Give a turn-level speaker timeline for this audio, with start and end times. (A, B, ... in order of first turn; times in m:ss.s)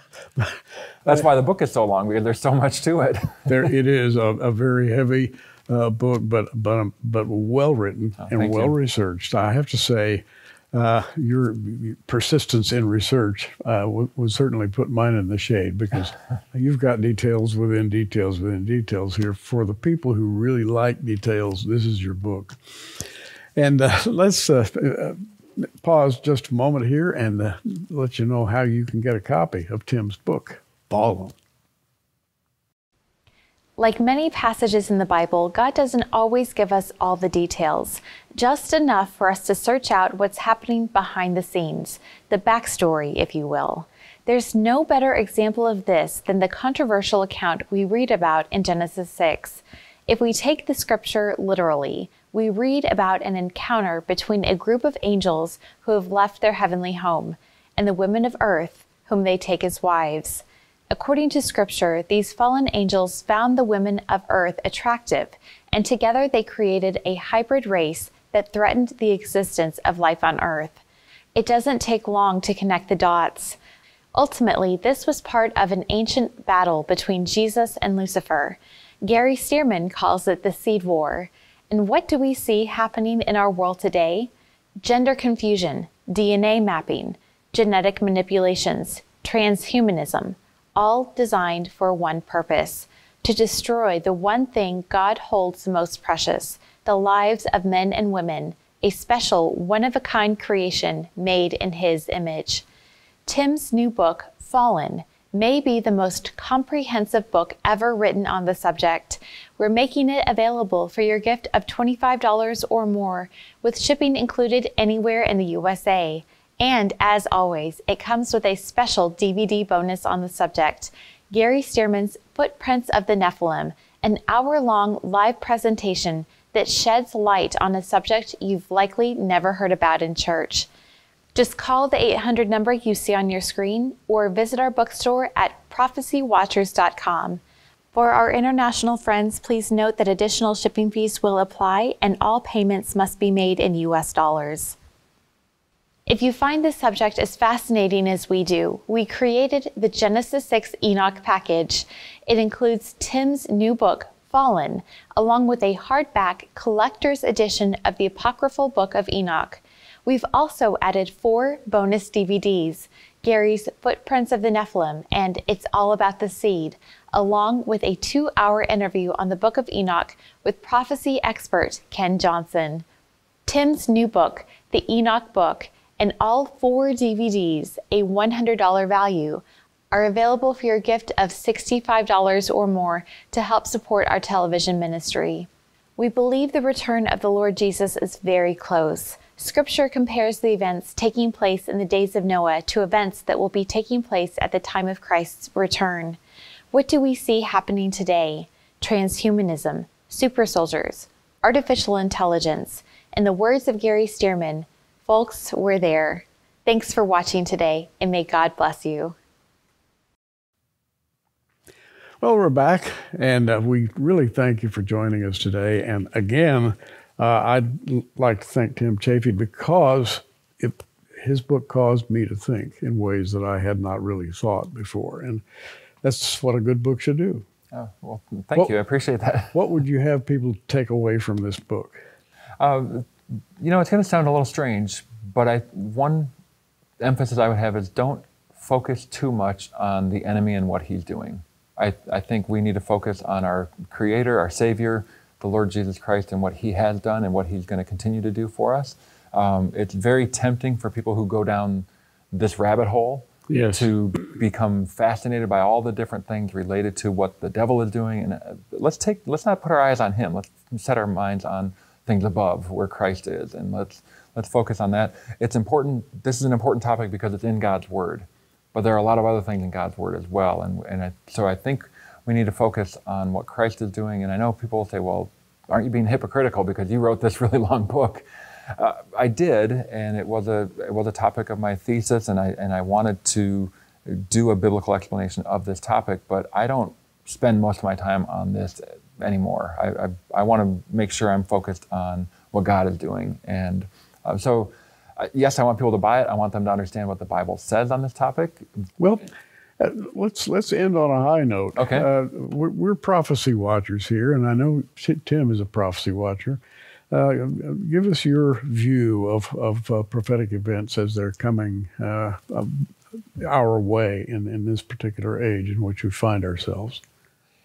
0:00.4-0:01.2 A
0:01.0-0:03.6 B
0:03.5-0:31.3 A
0:08.2-0:08.7 B
0:33.8-1:10.8 C
1:11.3-1:13.6 C
1:14.1-1:24.3 C
1:24.8-1:42.6 C
1:43.2-2:10.7 C
2:11.3-2:17.4 C
2:17.9-2:24.8 C
2:26.1-2:52.8 C
2:53.5-3:16.2 C
3:16.7-3:29.2 C
3:32.2-3:45.4 A
3:46.0-3:47.4 A
3:47.7-3:49.6 B
3:49.5-3:52.0 A
3:52.6-3:56.3 B
3:57.0-4:58.7 B
4:13.5-4:13.9 A
4:59.0-4:59.3 A
4:59.8-5:06.6 A
5:01.8-5:02.1 B
5:07.1-5:17.0 A